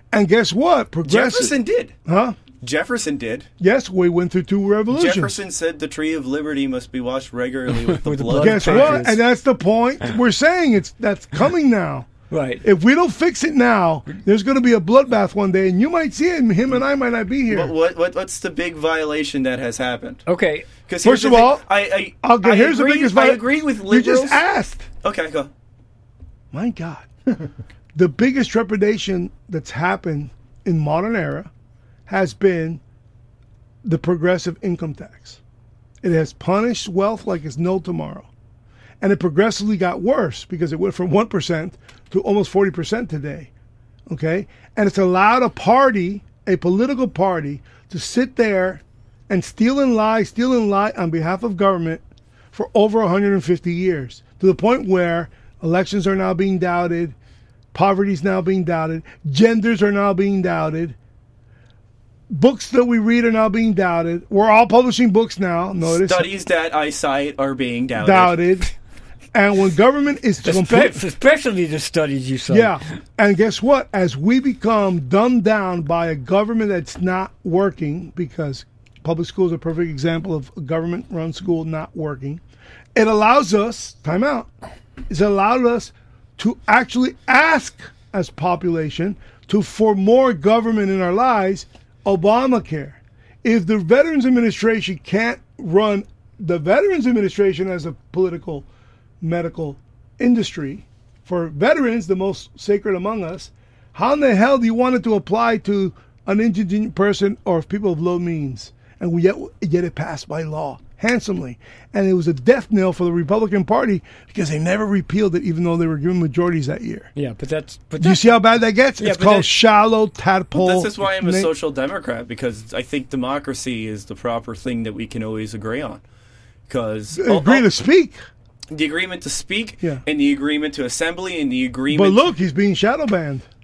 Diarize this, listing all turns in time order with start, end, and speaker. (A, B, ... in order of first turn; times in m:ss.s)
0:00.1-0:01.5 A
0:01.0-0:02.0 B
0:02.1-0:02.4 A
0:02.6-0:03.5 B
0:03.6-0:05.4 A
0:04.9-0:09.1 B
0:07.8-0:09.2 C
0:08.4-0:12.1 A
0:12.3-0:12.6 C
0:12.6-0:17.7 A
0:17.5-0:20.2 B
0:20.3-0:20.7 C
0:20.9-0:24.4 B
0:21.0-0:21.6 A
0:22.2-0:24.8 A
0:25.0-0:25.5 B
0:26.5-0:27.1 A
0:28.0-0:31.5 A
0:32.1-0:32.8 A
0:33.8-0:35.4 A
0:36.0-0:38.3 A
0:39.0-0:43.5 A
0:44.1-0:52.0 A
0:52.5-0:57.2 A
0:57.7-1:01.0 A
1:02.3-1:06.3 A
1:05.8-1:08.4 B
1:08.0-1:08.7 A
1:09.3-1:11.0 A
1:10.4-1:12.8 C
1:12.5-1:22.4 A
1:23.0-1:24.5 A
1:25.1-1:38.7 A
1:39.2-1:57.1 A
1:57.2-1:58.3 C
1:58.0-2:01.5 A
1:59.0-1:59.5 C
2:00.5-2:06.0 B
2:06.7-2:07.7 B
2:07.2-2:08.2 A
2:08.7-2:12.3 B
2:11.9-2:13.4 A